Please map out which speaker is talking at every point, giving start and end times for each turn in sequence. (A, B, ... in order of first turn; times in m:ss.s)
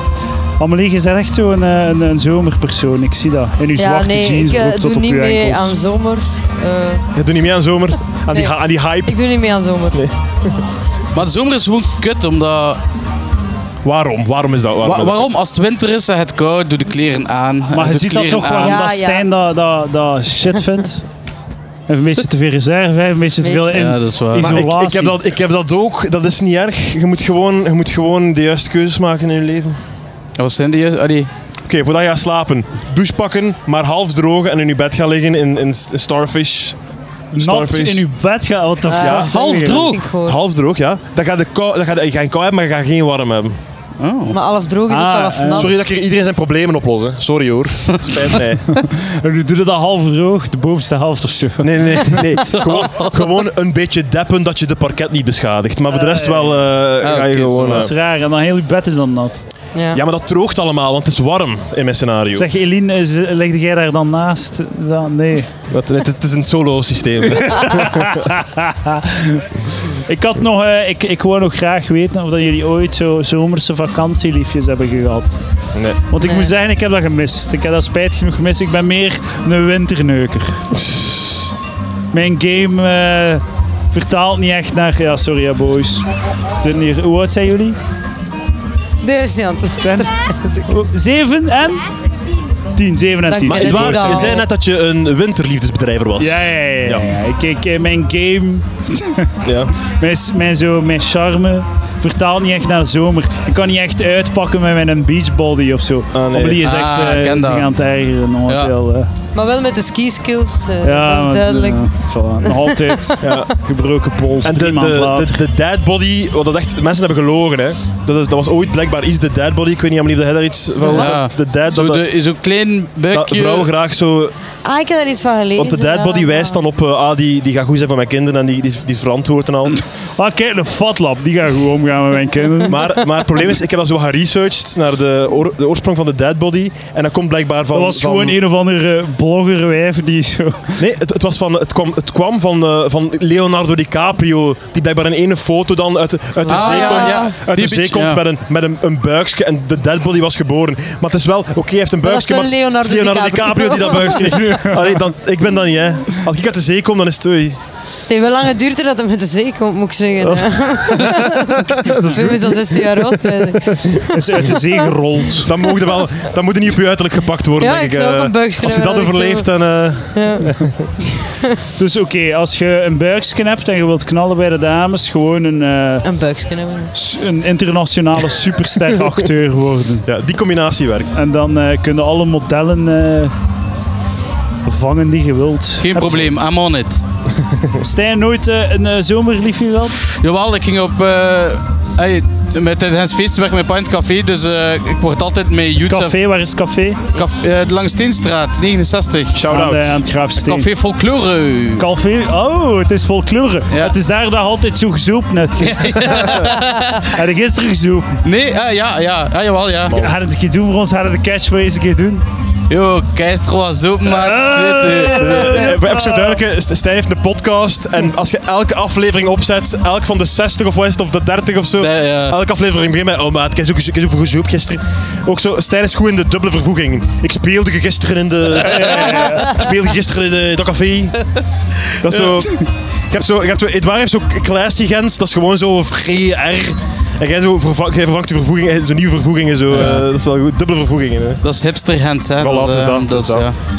0:00.6-0:05.8 A
0:03.8-0:07.0 B
0:07.2-0:09.2 C
0:09.1-0:10.0 B
0:09.9-0:10.5 C
0:11.2-0:12.8 D
0:13.8-0:15.3 C
0:14.8-0:18.9 D
0:17.7-0:21.0 A
0:18.6-0:19.2 B
0:21.9-0:25.2 A
0:23.4-0:23.8 B
0:23.7-0:24.6 D
0:24.4-0:29.8 C
0:30.4-0:31.3 D
0:31.6-0:36.8 C
0:37.3-0:39.9 A
0:37.4-0:38.1 C
0:38.9-0:40.4 B
0:39.0-0:39.3 C
0:39.3-0:40.1 D
0:40.2-0:43.6 C
0:44.0-0:44.4 D
0:44.3-0:45.7 B
0:44.9-0:45.7 A
0:45.5-0:48.7 C
0:48.7-0:52.2 A
0:51.6-0:57.9 C
0:52.4-0:53.3 D
0:55.9-0:56.6 A
0:57.0-0:57.9 D
0:57.7-0:59.4 A
0:59.8-1:00.0 B
0:59.9-1:02.5 C
1:02.4-1:05.5 A
1:05.7-1:08.3 C
1:07.4-1:15.4 A
1:15.7-1:16.0 C
1:16.1-1:20.6 A
1:16.2-1:16.5 B
1:20.7-1:21.5 C
1:22.1-1:26.1 A
1:26.6-1:27.8 A
1:29.0-1:30.7 B
1:29.8-1:30.1 A
1:30.7-1:31.8 A
1:32.8-1:34.3 A
1:33.3-1:34.5 B
1:33.5-1:37.1 C
1:36.2-1:49.1 A
1:39.4-1:39.7 C
1:46.1-1:46.6 C
1:46.6-1:47.7 D
1:49.4-1:51.9 B
1:50.8-1:55.4 A
1:52.4-1:53.4 B
1:53.2-1:53.5 C
1:54.4-2:02.1 C
2:00.8-2:01.1 B
2:00.9-2:03.7 D
2:03.1-2:04.3 C
2:04.6-2:06.6 B
2:05.6-2:09.8 C
2:10.2-2:13.0 A
2:12.6-2:18.4 C
2:17.7-2:20.8 A
2:20.8-2:37.6 C
2:26.4-2:27.3 B
2:26.5-2:28.2 D
2:32.0-2:34.6 B
2:34.4-2:34.8 A
2:38.1-2:44.7 B
2:40.2-2:44.0 C
2:44.1-2:45.5 A
2:45.4-2:50.8 C
2:47.6-2:49.5 B
2:50.1-2:50.5 B
2:51.8-2:56.0 A
2:56.0-2:56.9 B
2:56.9-3:00.1 A
3:00.1-3:01.2 C
3:01.1-3:03.3 A
3:04.6-3:06.3 A
3:05.8-3:07.0 D
3:07.8-3:10.0 A
3:10.1-3:16.2 D
3:15.8-3:17.0 A
3:17.1-3:19.4 D
3:19.3-3:20.0 C
3:19.5-3:20.7 A
3:20.4-3:21.9 D
3:21.8-3:26.5 A
3:25.6-3:27.1 D
3:27.0-3:28.2 A
3:28.2-3:30.0 D
3:29.9-3:32.2 A
3:32.7-3:35.5 D
3:34.1-3:36.4 A
3:35.2-3:51.2 C
3:41.8-3:42.4 D
3:48.6-3:49.6 A
3:52.0-4:01.4 C
3:59.7-4:00.0 D
4:01.4-4:03.6 D
4:02.4-4:03.5 C